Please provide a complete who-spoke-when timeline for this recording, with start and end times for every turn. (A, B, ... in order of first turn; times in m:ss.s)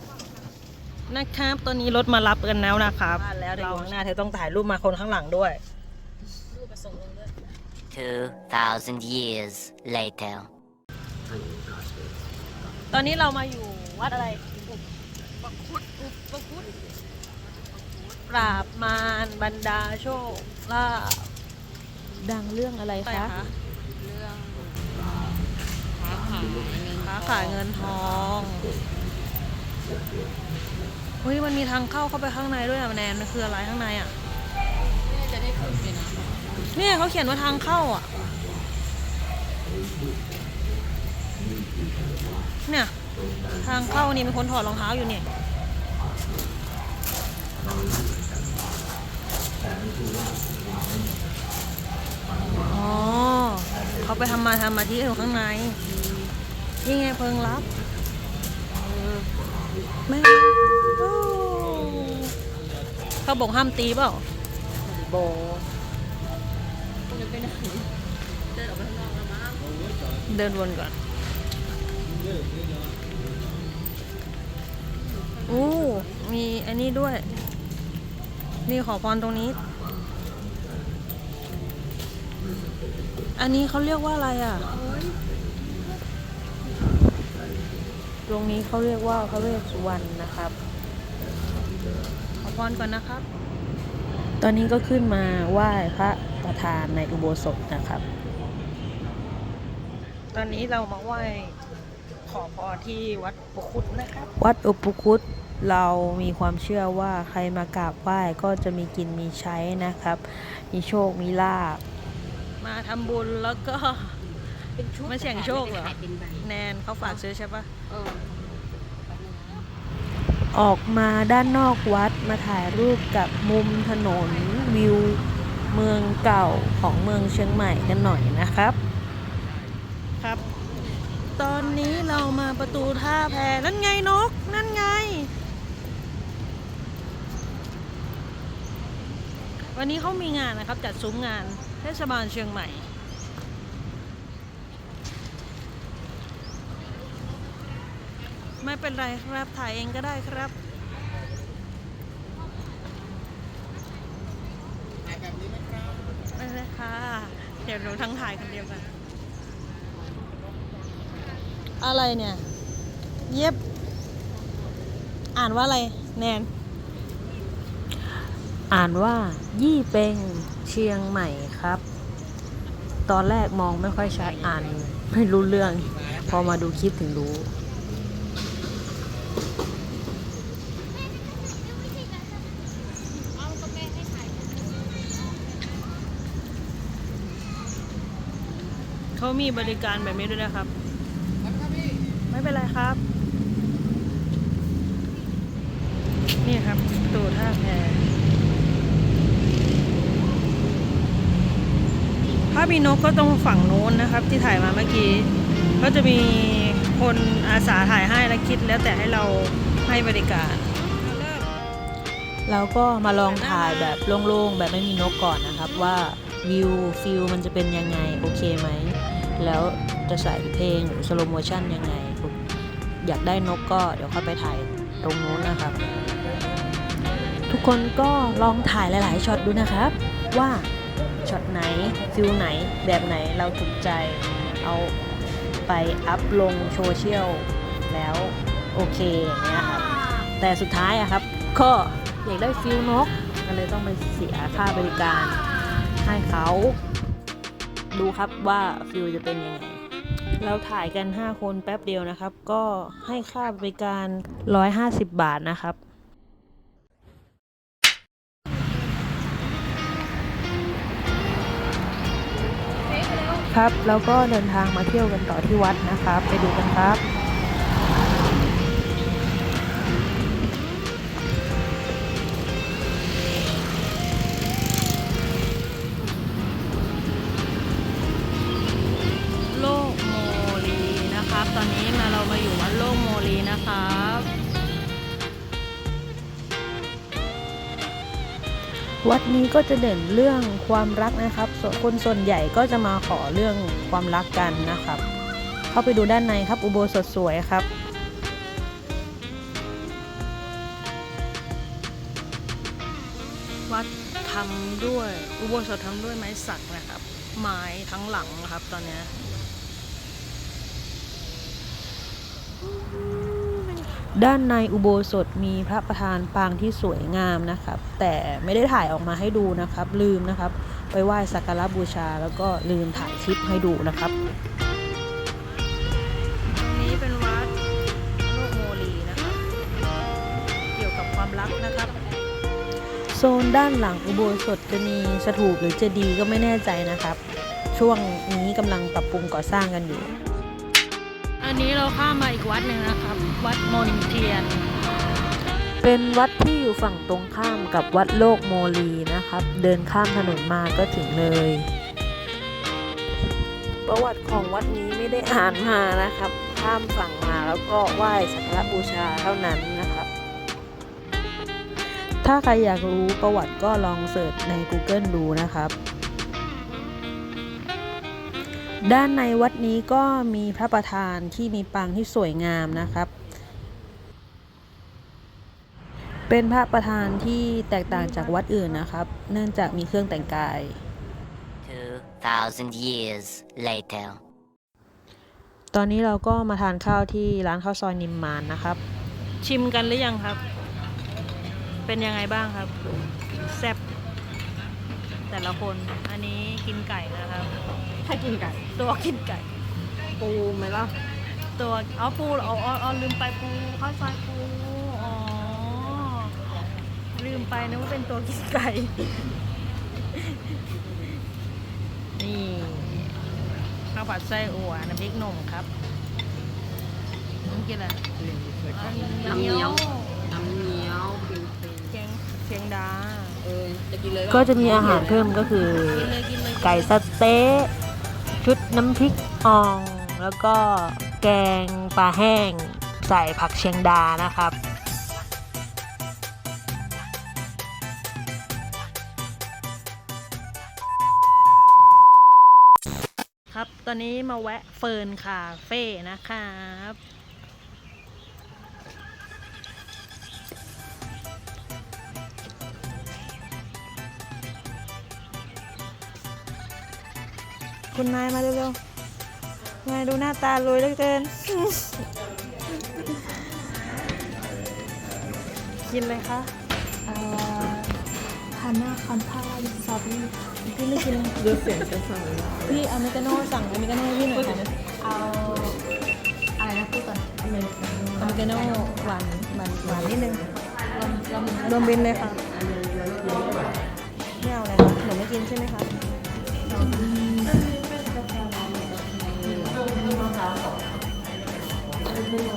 0:01.1-0:05.6 A
0:03.2-0:04.1 B
0:06.5-0:07.4 C
0:07.9-0:10.5 D
0:12.9-0:14.4 A
0:15.5-0:16.7 C
0:18.3-0:21.3 A
0:22.2-0:23.4 B
0:23.0-0:23.5 A
0:24.0-0:25.0 C
0:25.9-0:27.6 C
0:26.9-0:28.8 A
0:31.2-0:34.2 A
0:35.1-0:36.3 C
0:36.7-0:38.1 A
0:42.7-0:42.9 A
0:43.6-0:45.3 A
0:52.6-0:55.8 A
0:55.9-0:56.3 C
0:56.8-0:57.7 A
0:58.7-0:59.3 C
1:00.1-1:02.3 A
1:03.2-1:04.2 A
1:04.8-1:05.7 C
1:07.1-1:07.9 C
1:08.5-1:09.6 C
1:10.3-1:10.9 A
1:15.0-1:16.2 C
1:15.5-1:17.4 A
1:18.7-1:19.6 A
1:23.4-1:24.7 A
1:24.8-1:25.2 C
1:28.3-1:30.6 B
1:32.4-1:33.2 A
1:34.4-1:38.0 B
1:40.3-1:41.6 A
1:42.3-1:44.3 A
1:44.4-1:51.8 B
1:52.6-1:54.2 A
1:54.8-1:56.5 C
1:55.0-1:57.7 A
1:57.9-1:59.7 C
2:00.5-2:08.8 B
2:11.4-2:15.3 A
2:19.7-2:22.9 A
2:28.6-2:30.5 A
2:36.3-2:38.9 A
2:41.8-2:42.4 A
2:43.3-2:43.6 A
2:45.4-2:46.5 A
2:48.7-2:51.8 B
2:53.1-2:57.5 B
3:09.2-3:10.7 A
3:12.3-3:13.0 A
3:16.4-3:18.0 A
3:22.5-3:31.5 A
3:32.5-3:42.4 B
3:33.2-3:34.0 A
3:43.0-3:45.8 B
3:44.9-3:45.2 C
3:47.5-3:50.7 B
3:51.2-3:54.9 B
3:55.7-3:59.9 B
4:00.4-4:05.4 B
4:06.0-4:06.8 B
4:07.9-4:09.8 B
4:10.4-4:15.8 B
4:23.5-4:27.0 B
4:39.5-4:44.3 A
4:49.0-4:55.0 B
4:55.7-4:57.7 B
5:03.7-5:09.1 A
5:14.1-5:24.2 B
5:26.5-5:27.5 A
5:28.2-5:29.4 A
5:30.8-5:32.0 A
5:33.1-5:37.2 B
5:37.7-5:40.1 B
5:41.4-5:44.6 A
5:45.8-5:51.7 B
5:53.9-6:00.1 B
6:02.2-6:05.7 B
6:08.8-6:13.1 B
6:16.3-6:20.8 B
6:18.1-6:18.3 A
6:21.6-6:24.2 D
6:25.7-6:28.8 B
6:29.4-6:30.4 A
6:31.9-6:32.7 A
6:33.3-6:33.8 A
6:35.3-6:37.5 A
6:38.0-6:38.7 C
6:38.8-6:39.5 A
6:40.2-6:41.0 C
6:41.6-6:46.4 A
6:47.1-6:49.1 A
6:50.2-6:50.6 A
6:52.2-6:53.1 A
6:53.9-6:55.7 A
6:57.4-6:58.0 A
6:58.2-7:02.0 C
6:58.7-7:00.2 A
7:01.9-7:03.4 A
7:03.4-7:05.3 C
7:04.3-7:07.7 B
7:05.6-7:06.9 A
7:08.4-7:14.6 B
7:23.5-7:27.0 A
7:37.9-7:38.8 A
7:39.8-7:42.0 A
7:45.8-7:46.5 A
7:47.1-7:48.0 E
7:48.6-7:50.3 E
7:50.7-7:51.4 A
7:51.4-7:52.6 C
7:52.6-7:54.7 A
7:55.1-7:55.8 E
7:56.6-7:57.3 E
7:58.2-8:00.5 A
7:58.2-7:58.8 E
8:00.9-8:03.6 C
8:01.6-8:02.4 A
8:04.4-8:05.9 A
8:06.7-8:07.6 E
8:08.8-8:09.6 C
8:09.9-8:10.3 E